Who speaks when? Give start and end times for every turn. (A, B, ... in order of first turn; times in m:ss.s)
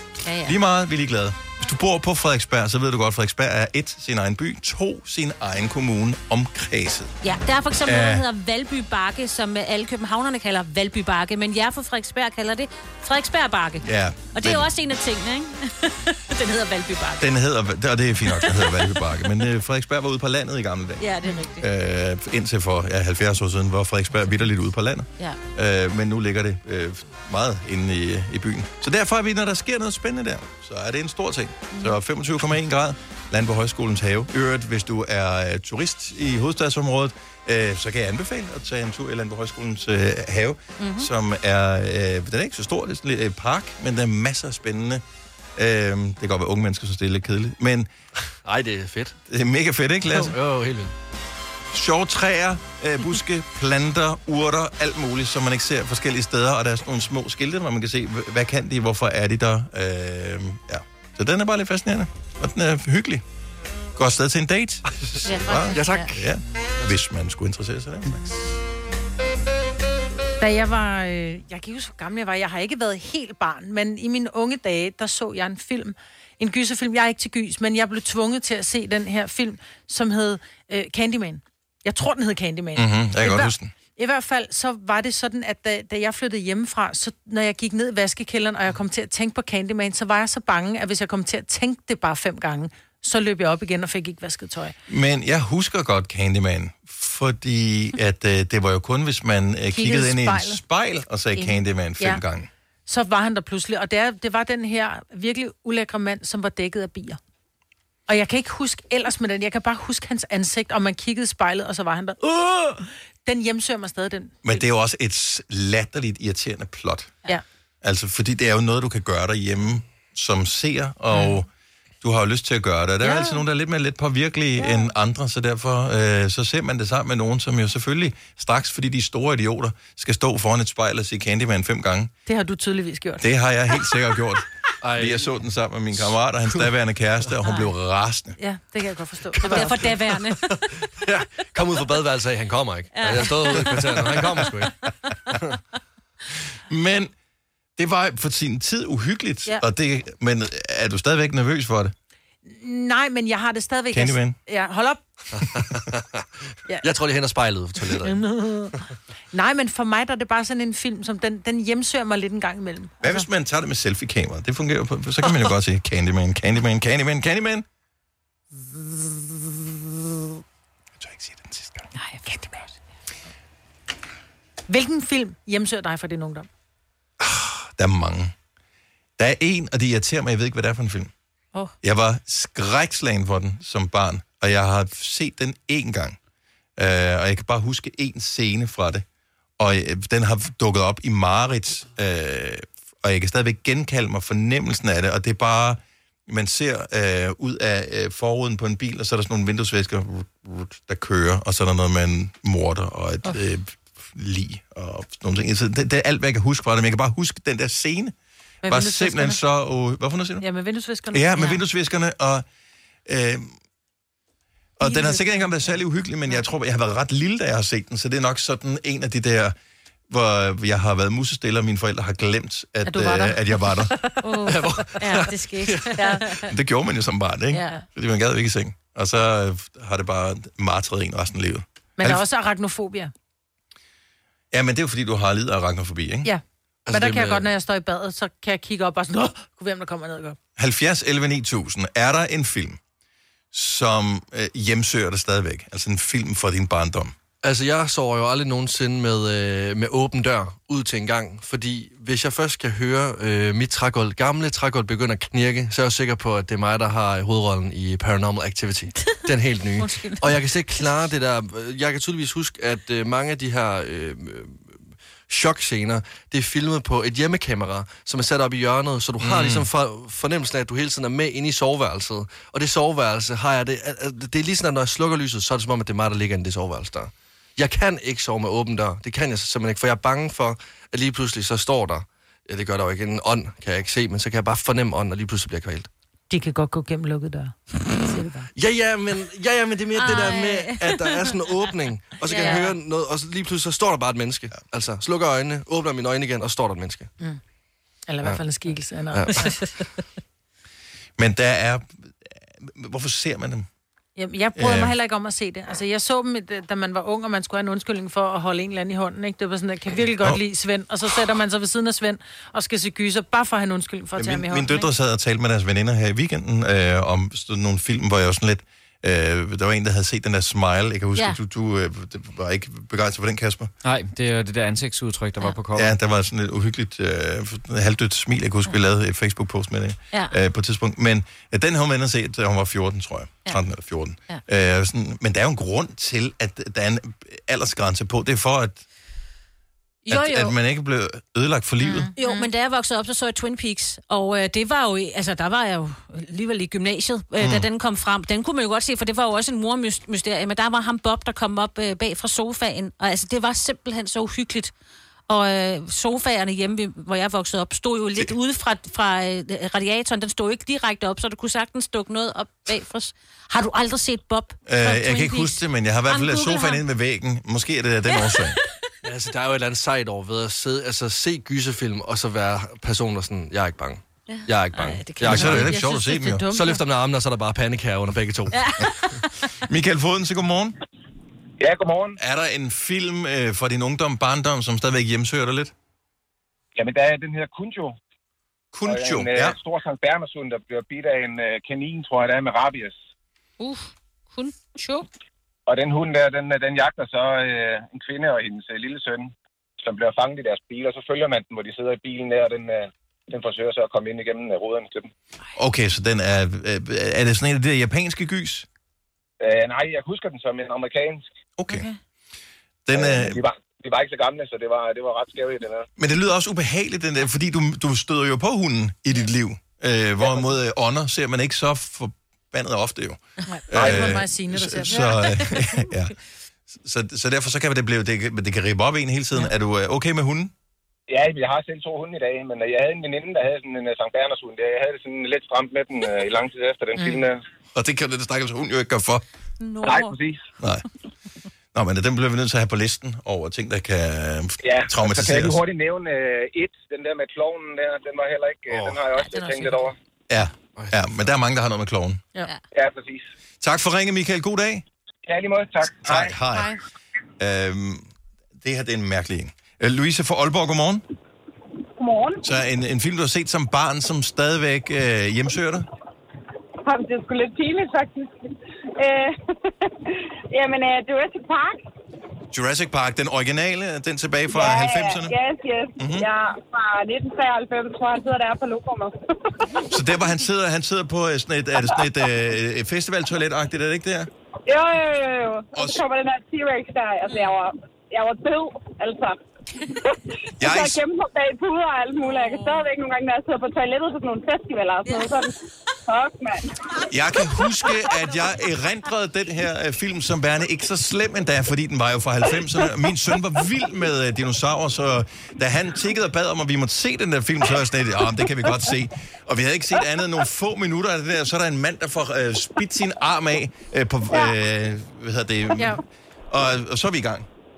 0:00.2-0:00.6 A
0:00.4-0:07.2 B
0:07.2-0:17.3 A
0:07.8-0:08.2 B
0:13.8-0:14.7 B
0:17.2-0:21.1 B
0:18.3-0:19.0 A
0:21.0-0:21.6 A
0:21.6-0:45.0 B
0:40.8-0:41.1 A
0:45.6-0:47.9 B
0:48.4-0:49.2 C
0:49.3-0:50.4 B
0:50.1-0:50.9 C
0:51.7-1:03.2 B
1:04.0-1:08.3 B
1:05.2-1:06.2 A
1:05.7-1:06.2 C
1:10.4-1:34.8 D
1:22.8-1:23.7 B
1:34.9-1:42.5 B
1:39.7-1:40.6 D
1:41.4-1:42.2 D
1:42.9-1:47.2 D
1:48.1-1:54.6 D
1:54.4-1:57.1 B
1:57.8-2:01.5 B
2:02.0-2:12.1 B
2:03.0-2:03.4 D
2:12.2-2:13.3 D
2:13.2-2:14.4 B
2:14.8-2:15.4 C
2:15.0-2:18.4 B
2:18.4-2:19.8 D
2:19.4-2:24.8 C
2:19.4-2:20.6 A
2:22.9-2:23.6 A
2:23.7-2:24.4 B
2:26.7-2:27.1 B
2:27.8-2:31.9 B
2:32.4-2:35.0 D
2:33.9-2:34.4 B
2:35.4-2:36.2 C
2:36.8-2:38.2 C
2:38.0-2:38.8 D
2:39.3-2:43.2 D
2:43.0-2:47.6 B
2:51.0-2:51.9 B
2:52.0-2:52.5 A
2:52.2-2:52.5 D
2:54.7-2:56.5 D
2:57.2-2:58.3 B
2:59.2-3:01.1 B
3:01.8-3:06.2 B
3:06.8-3:09.0 B
3:09.6-3:28.1 B
3:28.6-3:29.4 D
3:28.7-3:30.4 B
3:30.4-3:31.6 D
3:31.1-3:32.4 B
3:33.0-3:33.5 B
3:34.8-3:39.6 B
3:34.8-3:35.5 D
3:40.1-3:43.9 B
3:42.8-3:44.5 D
3:44.2-3:46.5 A
3:44.4-3:46.0 C
3:45.9-3:46.2 D
3:46.4-3:52.2 B
3:47.5-3:47.8 A
3:52.0-3:53.1 D
3:54.5-3:56.3 B
3:56.2-4:00.4 D
3:56.8-3:57.5 C
4:00.6-4:02.8 B
4:03.5-4:07.1 B
4:07.4-4:45.9 C
4:19.8-4:20.3 A
4:29.2-4:29.7 B
4:46.3-4:48.5 D
4:48.5-4:57.1 C
4:50.0-4:51.3 A
4:52.2-4:52.7 A
4:52.3-4:52.7 D
4:58.1-4:59.6 D
4:59.1-4:59.4 C
5:01.2-5:03.7 B
5:04.2-5:14.9 D
5:04.6-5:04.9 B
5:14.2-5:23.7 B
5:23.8-5:25.9 E
5:25.7-5:38.8 B
5:40.0-5:40.5 A
5:40.1-5:42.1 B
5:41.9-5:42.5 D
5:42.0-5:54.7 A
5:47.4-5:47.7 B
5:55.3-6:06.8 A
6:04.6-6:08.6 B
6:08.1-6:08.7 A
6:09.0-6:15.9 C
6:14.3-6:15.6 A
6:15.2-6:16.8 D
6:15.3-6:16.5 B
6:16.5-6:18.6 C
6:18.5-6:19.4 A
6:19.7-6:20.8 B
6:21.6-6:22.2 F
6:22.2-6:25.7 B
6:26.7-6:28.0 F
6:28.7-6:29.6 B
6:28.8-6:33.0 F
6:33.6-6:35.0 A
6:35.7-6:45.1 F
6:45.5-6:48.7 B
6:49.4-6:51.3 F
6:51.6-6:51.9 B
6:51.7-6:52.0 A
6:52.9-6:53.4 B
6:52.9-6:55.9 F
6:56.0-7:06.1 B
7:00.2-7:00.4 F
7:03.5-7:05.6 D
7:03.8-7:04.1 F
7:06.7-7:10.5 B
7:11.1-7:17.4 F
7:17.7-7:19.2 B
7:19.6-7:20.2 A
7:19.8-7:20.4 F
7:20.6-7:20.8 B
7:21.7-7:25.6 B
7:24.6-7:29.9 F
7:28.7-7:29.0 C
7:29.1-7:29.8 A
7:30.3-7:32.2 B
7:30.7-7:31.3 C
7:32.7-7:33.2 F
7:33.6-7:34.8 B
7:35.2-7:36.3 F
7:36.0-7:36.7 B
7:36.5-7:36.8 D
7:37.4-7:38.1 B
7:38.6-7:41.0 B
7:42.0-7:42.4 G
7:42.4-7:45.8 B
7:46.8-7:51.8 G
7:52.5-7:55.4 B
7:54.5-7:59.8 G
7:56.0-7:56.3 B
7:59.9-8:04.3 B
8:04.7-8:09.4 G
8:05.7-8:06.0 B
8:10.0-8:15.5 G
8:10.6-8:11.0 B
8:12.2-8:12.9 A
8:15.0-8:15.3 A
8:16.1-8:16.7 G
8:17.1-8:37.5 B